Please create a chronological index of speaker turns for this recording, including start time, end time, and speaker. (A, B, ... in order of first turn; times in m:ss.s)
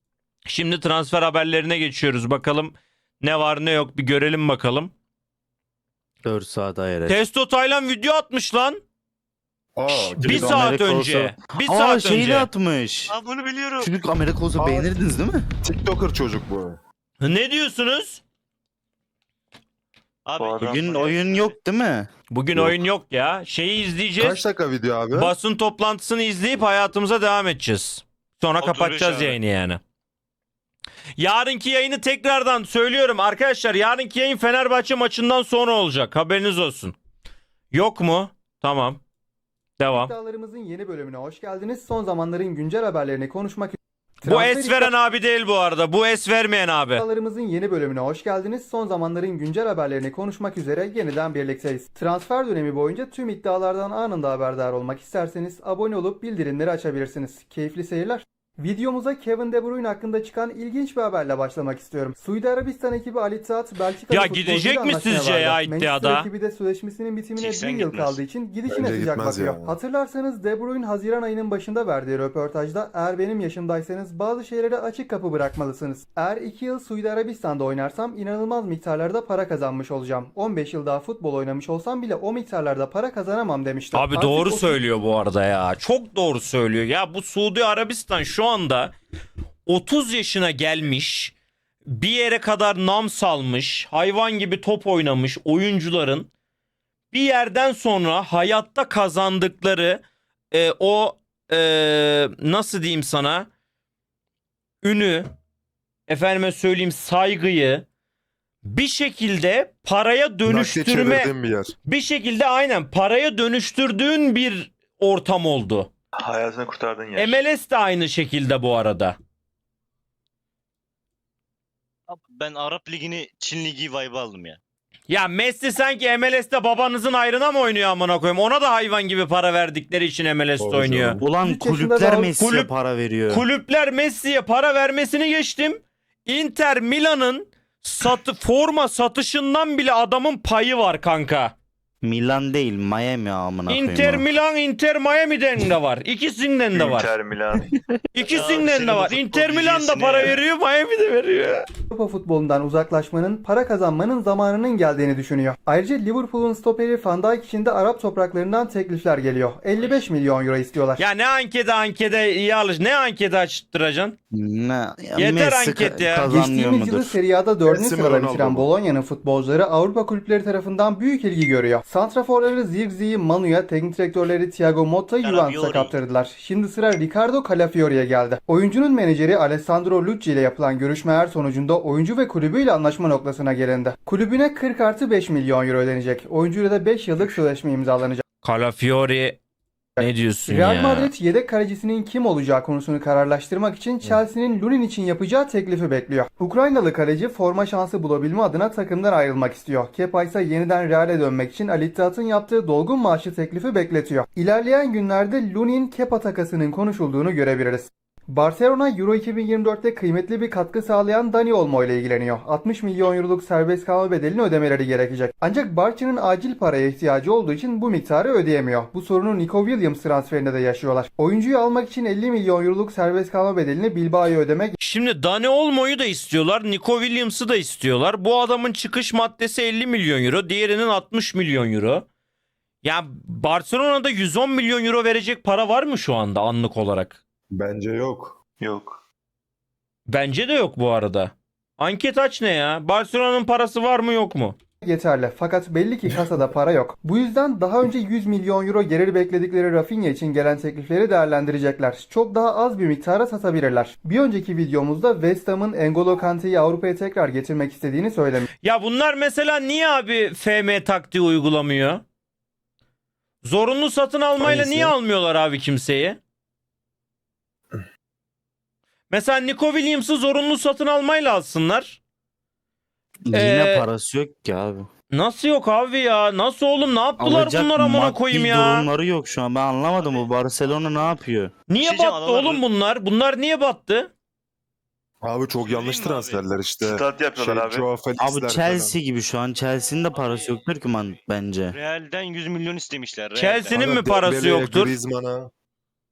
0:00.5-0:04.9 A
0:06.2-0:07.2 B
0:07.1-0:08.8 A
0:09.8-0:10.8 C
0:09.9-0:12.5 A
0:10.2-0:13.1 B
0:13.1-0:13.9 D
0:13.8-0:15.4 B
0:14.6-0:14.9 C
0:15.6-0:16.8 C
0:17.2-0:18.2 A
0:20.2-0:21.5 D
0:20.4-0:21.2 E
0:20.6-0:22.1 B
0:22.3-0:24.4 A
0:22.5-0:22.8 C
0:24.2-0:25.3 C
0:25.1-0:29.8 A
0:28.6-0:29.4 D
0:31.2-0:37.0 A
0:37.7-0:39.0 A
0:39.8-0:40.1 A
0:39.9-0:44.9 F
0:44.2-0:47.0 A
0:46.9-1:24.8 F
1:04.1-1:06.3 A
1:07.4-1:08.2 D
1:08.7-1:09.7 C
1:23.9-1:29.0 A
1:29.6-1:31.3 A
1:31.8-1:36.3 A
1:37.1-1:43.5 A
1:44.8-1:45.3 A
1:46.1-1:47.8 A
1:48.6-1:51.3 A
1:50.4-1:51.7 C
1:51.8-1:55.9 A
1:56.2-1:57.4 E
1:57.2-1:59.2 A
2:02.1-2:04.6 D
2:05.1-2:11.2 A
2:10.6-2:11.2 C
2:11.2-2:13.4 B
2:11.2-2:12.3 F
2:12.4-2:12.7 A
2:13.3-2:21.5 A
2:22.0-2:24.3 B
2:23.7-2:27.1 A
2:26.7-2:27.7 E
2:28.1-2:31.7 A
2:28.3-2:30.4 D
2:31.9-2:41.0 F
2:39.8-2:40.0 D
2:41.0-2:44.2 A
2:44.3-2:47.2 B
2:45.1-2:46.3 A
2:46.3-3:08.2 F
2:47.6-2:48.7 C
2:55.2-2:55.9 D
3:08.4-3:09.4 A
3:10.0-3:44.8 F
3:10.0-3:11.1 A
3:44.8-3:52.0 A
3:52.8-3:57.2 A
3:57.5-3:58.4 C
3:58.6-3:59.0 E
4:00.1-4:04.6 A
4:04.8-4:18.5 F
4:18.6-4:22.0 A
4:23.4-4:26.2 A
4:24.4-4:24.9 B
4:29.1-4:32.0 A
4:33.2-4:34.9 B
4:33.3-4:33.9 A
4:35.1-4:38.9 A
4:37.2-4:41.5 B
4:40.0-4:41.1 D
4:41.7-4:44.1 A
4:41.8-4:42.6 D
4:45.2-4:48.9 C
4:45.6-4:46.4 D
4:46.8-4:47.9 E
4:48.2-4:51.8 B
4:50.1-4:50.5 D
4:51.7-4:53.8 D
4:53.4-4:54.9 A
4:53.7-4:55.5 C